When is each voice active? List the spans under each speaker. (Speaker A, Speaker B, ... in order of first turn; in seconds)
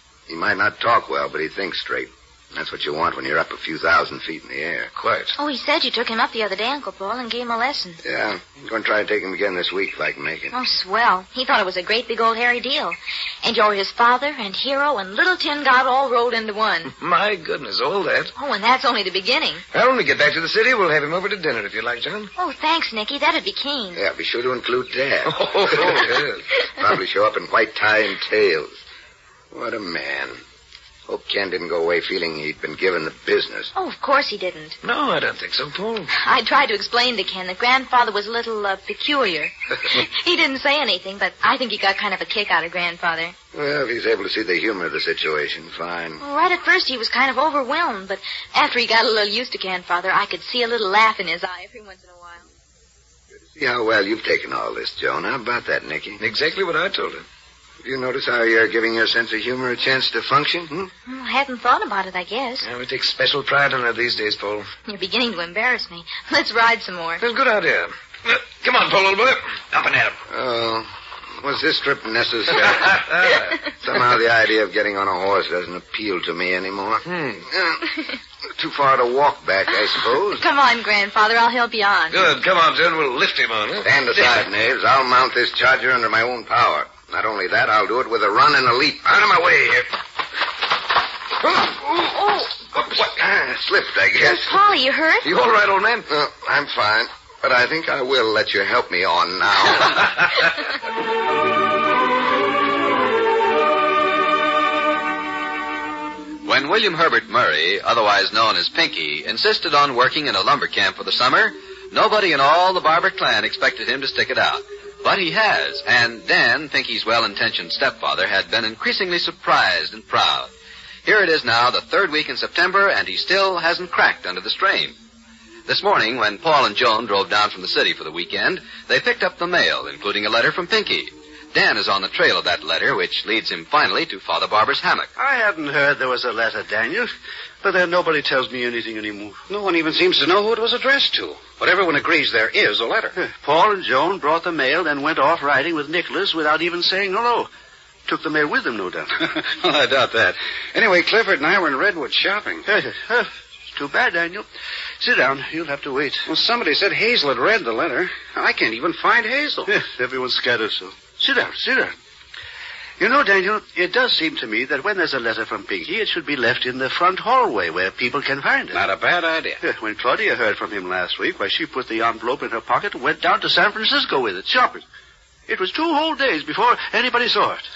Speaker A: 0.3-4.9, 8.0-10.5, 23.9-26.1, 26.8-28.8, 29.5-30.4, 31.1-33.7, 43.5-46.2, 53.5-56.2, 57.8-60.9, 70.3-73.1, 73.8-78.0, 78.6-80.4, 83.8-89.8, 91.6-94.5, 96.1-100.2
Speaker B: 5.0-5.3, 16.9-18.3, 19.7-22.3, 25.2-26.4, 34.8-36.1, 56.2-57.3, 62.6-64.7, 67.2-70.2, 72.7-73.5, 77.1-77.5, 82.1-84.4, 95.2-96.1
Speaker C: 5.3-8.0, 10.5-16.9, 18.4-19.6, 22.4-24.0, 33.7-34.8, 36.1-43.4, 46.2-52.5, 61.1-62.7, 64.9-67.2, 80.4-82.3, 94.2-95.3
Speaker D: 106.4-120.5, 121.0-125.0, 125.7-135.1
Speaker E: 135.2-137.1, 137.6-139.4, 143.2-147.5, 148.1-149.2, 152.7-154.5, 155.0-156.3, 159.7-162.0, 163.0-168.8, 169.6-174.8, 175.5-177.7
Speaker F: 139.5-143.2, 149.2-152.7, 156.3-159.7, 168.7-169.6